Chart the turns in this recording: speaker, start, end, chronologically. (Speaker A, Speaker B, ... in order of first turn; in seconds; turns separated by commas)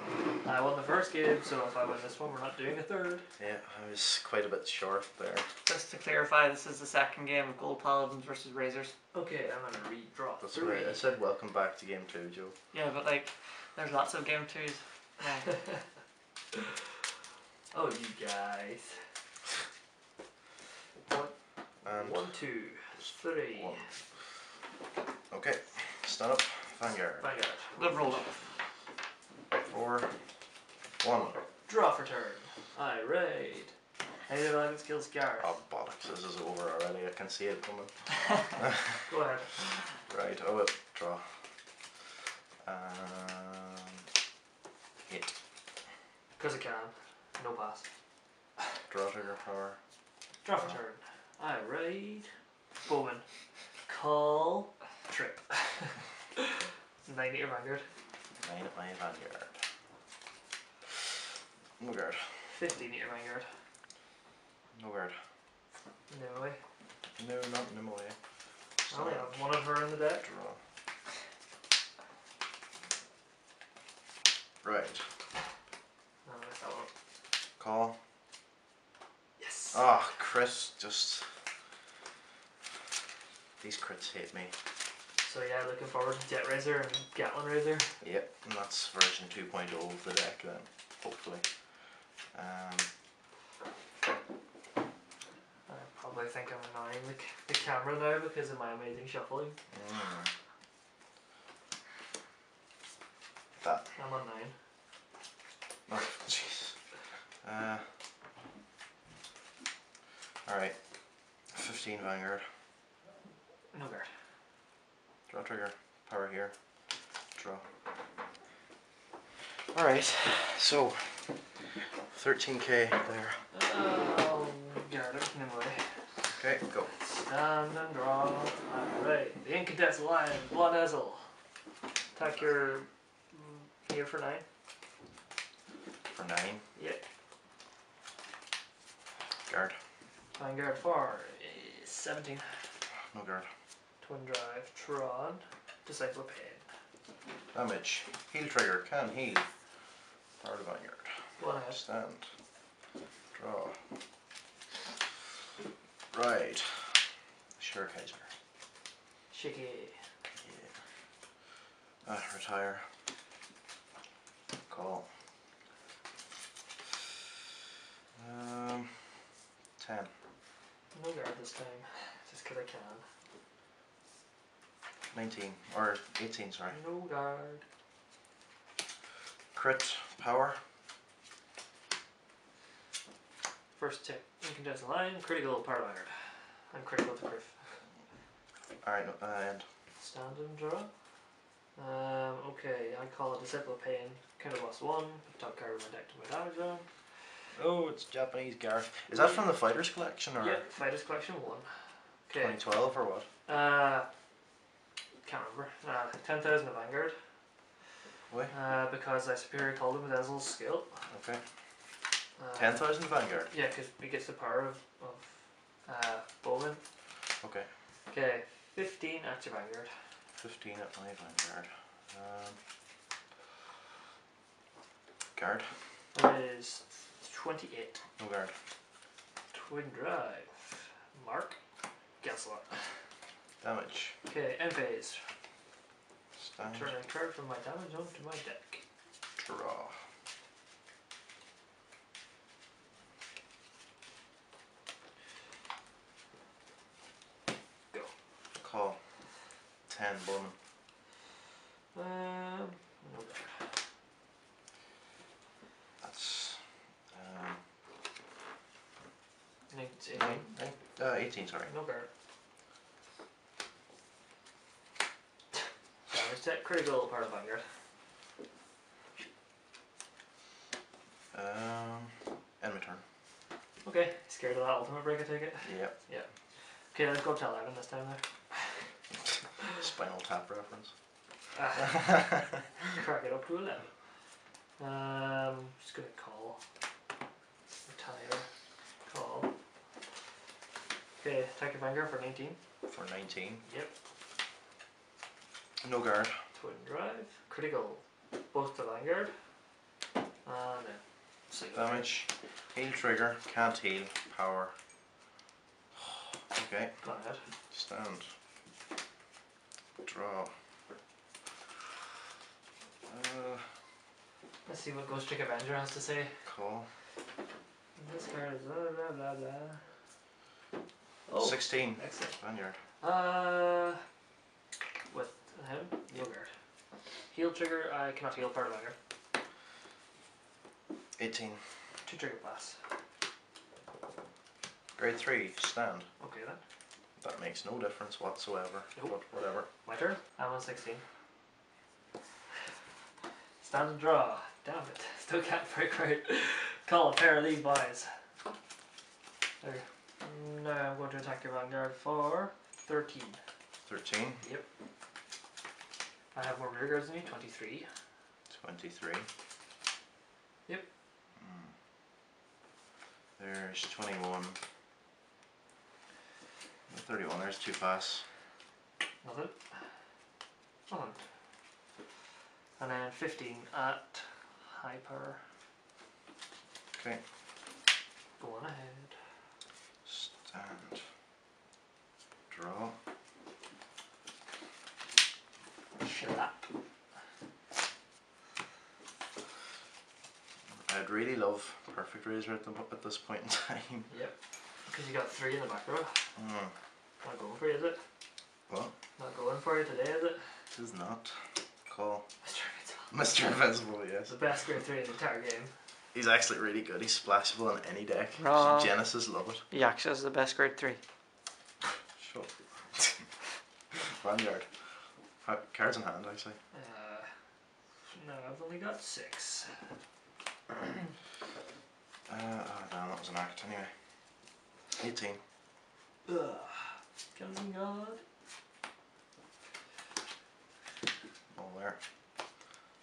Speaker A: 0.4-3.2, Speaker B: 3.4-5.5, Speaker C: 5.7-8.9, Speaker A: 9.1-11.0, Speaker B: 10.4-12.5, Speaker C: 12.7-15.6, Speaker A: 15.4-15.8, Speaker A: 17.7-19.0, Speaker A: 21.0-21.3, Speaker B: 21.8-22.3, Speaker A: 21.9-23.8, Speaker B: 22.9-23.9, Speaker B: 25.3-27.3, Speaker A: 27.2-28.2, Speaker C: 27.8-28.4, Speaker B: 29.6-30.1, Speaker B: 31.0-31.4, Speaker A: 31.6-33.7, Speaker A: 34.3-35.5, Speaker B: 35.4-37.9, Speaker B: 38.6-39.0, Speaker A: 39.0-39.9, Speaker B: 40.0-41.2, Speaker B: 42.6-44.0, Speaker A: 46.4-47.9, Speaker B: 48.9-49.8, Speaker A: 50.4-52.3, Speaker A: 52.8-53.2, Speaker A: 53.9-56.5, Speaker A: 57.0-57.9, Speaker B: 58.4-59.5, Speaker B: 61.8-62.3, Speaker A: 62.5-63.5, Speaker B: 64.7-65.1, Speaker A: 66.1-66.6, Speaker B: 67.2-68.2, Speaker B: 68.8-70.6, Speaker A: 68.9-70.2, Speaker B: 74.6-75.0, Speaker A: 76.2-76.9, Speaker B: 77.6-78.0, Speaker A: 79.4-79.8, Speaker B: 79.7-81.3, Speaker B: 83.6-84.5, Speaker A: 85.2-88.0, Speaker B: 88.0-91.4, Speaker B: 92.3-92.9, Speaker A: 95.7-99.6, Speaker B: 99.7-100.3, Speaker B: 103.6-103.9, Speaker A: 104.0-104.5, Speaker B: 105.9-106.8, Speaker B: 107.4-107.8, Speaker B: 110.5-110.8, Speaker B: 111.5-112.4, Speaker A: 113.7-114.1, Speaker B: 115.3-116.5, Speaker B: 117.3-117.6, Speaker B: 119.7-123.4, Speaker A: 123.5-125.8, Speaker B: 126.3-126.9, Speaker A: 126.9-131.3, Speaker A: 132.1-134.4, Speaker B: 136.1-136.6, Speaker A: 136.8-137.0, Speaker B: 139.5-139.7, Speaker A: 140.4-142.6, Speaker B: 143.1-143.5, Speaker A: 144.0-146.6, Speaker B: 147.5-149.5, Speaker B: 150.4-152.3, Speaker A: 151.4-151.8, Speaker B: 153.3-153.8, Speaker B: 156.1-157.0, Speaker B: 157.6-158.3, Speaker A: 159.3-160.0, Speaker B: 160.4-160.7, Speaker B: 162.0-162.8, Speaker B: 164.7-165.1, Speaker B: 168.2-169.1, Speaker B: 169.8-170.1, Speaker A: 170.9-173.0, Speaker B: 175.1-176.8, Speaker A: 176.7-177.6, Speaker B: 179.5-180.6, Speaker A: 183.8-186.1, Speaker A: 186.7-187.7, Speaker B: 188.8-189.7, Speaker A: 190.0-190.9, Speaker A: 191.8-196.8, Speaker B: 197.5-200.6, Speaker A: 199.1-199.4, Speaker A: 200.4-201.7, Speaker A: 202.3-202.7, Speaker B: 202.4-203.3, Speaker A: 203.5-204.1, Speaker A: 205.2-207.2, Speaker A: 208.5-211.0, Speaker B: 211.1-211.4, Speaker A: 212.4-212.9, Speaker B: 212.6-213.5, Speaker A: 213.5-216.8, Speaker B: 217.4-217.7, Speaker A: 218.1-219.9, Speaker B: 220.4-222.6, Speaker B: 225.3-225.7, Speaker A: 226.1-228.0, Speaker B: 228.2-228.5, Speaker A: 229.5-231.6, Speaker A: 232.2-232.9, Speaker B: 233.6-234.1, Speaker A: 234.2-235.2, Speaker B: 236.4-236.9, Speaker A: 236.7-238.8, Speaker B: 239.3-239.9, Speaker B: 248.6-249.0, Speaker B: 249.9-250.5, Speaker A: 251.9-253.6, Speaker B: 256.0-256.6, Speaker B: 257.1-257.6, Speaker A: 259.7-260.5, Speaker B: 260.1-261.7, Speaker A: 261.7-262.1, Speaker A: 266.1-267.6, Speaker B: 271.3-273.0, Speaker A: 273.8-276.3, Speaker B: 275.6-275.9, Speaker A: 276.9-278.2, Speaker B: 279.7-280.9, Speaker A: 281.5-282.1, Speaker B: 281.9-282.4, Speaker A: 282.8-283.9, Speaker A: 284.8-286.6, Speaker A: 287.9-288.5, Speaker A: 289.0-289.5, Speaker A: 291.2-292.6, Speaker B: 292.9-293.6, Speaker A: 293.6-293.9, Speaker B: 295.8-296.4, Speaker A: 296.5-299.3, Speaker A: 300.4-302.2, Speaker B: 301.7-304.7, Speaker B: 306.5-307.0, Speaker A: 307.0-307.4, Speaker B: 307.7-308.3, Speaker B: 310.0-310.5, Speaker B: 313.1-313.7, Speaker A: 314.6-316.3, Speaker B: 316.4-316.9, Speaker A: 318.0-319.8, Speaker A: 321.3-322.4, Speaker B: 321.4-322.8, Speaker A: 323.0-324.0, Speaker A: 325.1-326.5, Speaker A: 327.3-328.9, Speaker B: 331.2-331.6, Speaker A: 332.1-332.8, Speaker B: 335.0-336.1, Speaker A: 336.2-336.6, Speaker B: 337.2-339.7, Speaker A: 339.7-341.0, Speaker A: 343.6-348.1, Speaker A: 349.6-353.4, Speaker B: 353.9-354.4, Speaker A: 356.3-357.9, Speaker B: 358.5-359.3, Speaker B: 361.4-361.7, Speaker B: 363.4-364.6, Speaker B: 366.9-368.2, Speaker A: 369.2-369.6, Speaker A: 370.9-371.2, Speaker A: 372.8-375.4, Speaker B: 376.9-377.2, Speaker A: 378.4-379.1, Speaker B: 380.0-381.0, Speaker B: 382.5-382.9, Speaker A: 386.0-386.6, Speaker B: 390.9-394.1, Speaker A: 394.1-394.4, Speaker A: 394.9-396.2, Speaker B: 396.4-396.7, Speaker A: 397.2-398.0, Speaker A: 399.2-400.4, Speaker B: 400.7-402.2, Speaker A: 402.4-403.1, Speaker B: 403.1-404.4, Speaker A: 404.3-405.7, Speaker B: 406.1-409.6, Speaker C: 408.4-408.9, Speaker C: 409.7-411.0, Speaker B: 412.2-413.3, Speaker B: 413.9-414.7, Speaker B: 415.4-416.6, Speaker A: 416.7-417.3, Speaker A: 418.1-419.7, Speaker B: 422.3-423.9, Speaker B: 425.0-425.4, Speaker A: 426.2-428.2, Speaker B: 431.5-432.0